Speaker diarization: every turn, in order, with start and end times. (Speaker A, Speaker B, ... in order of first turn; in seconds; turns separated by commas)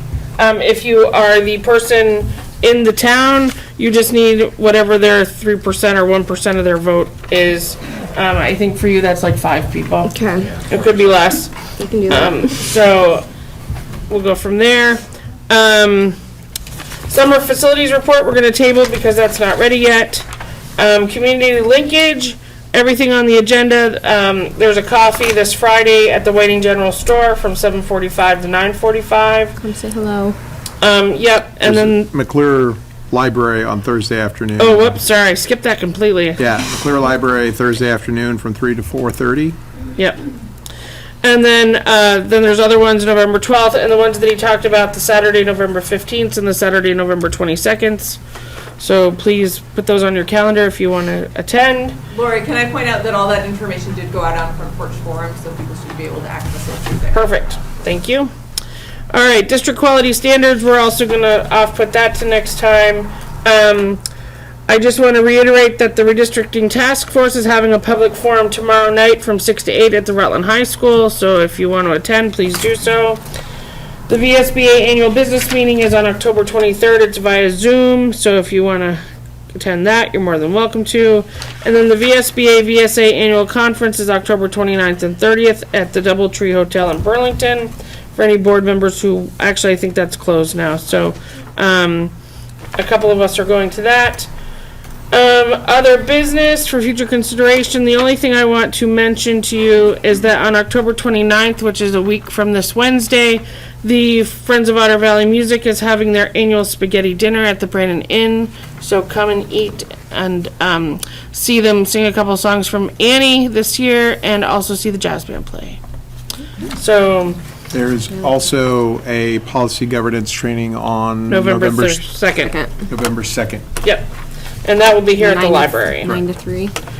Speaker A: 0.4-13.3, Speaker B: 10.1-10.6, Speaker B: 11.7-12.5, Speaker A: 14.1-16.2, Speaker A: 17.1-20.2, Speaker A: 20.8-29.6, Speaker B: 29.6-30.4, Speaker A: 30.8-32.1, Speaker C: 31.6-35.0, Speaker A: 34.6-36.5, Speaker C: 36.4-39.6, Speaker A: 41.2-48.2, Speaker A: 48.8-52.0, Speaker D: 52.1-57.2, Speaker A: 57.1-58.3, Speaker A: 59.1-64.0, Speaker A: 64.7-73.2, Speaker A: 74.1-79.0, Speaker A: 79.5-92.1, Speaker A: 92.8-94.3, Speaker A: 95.1-115.8, Speaker A: 116.7-117.4, Speaker C: 117.7-122.1, Speaker A: 121.3-122.5, Speaker B: 122.5-122.8, Speaker C: 122.8-123.6, Speaker A: 123.8-124.1, Speaker A: 124.6-126.2, Speaker B: 125.2-126.7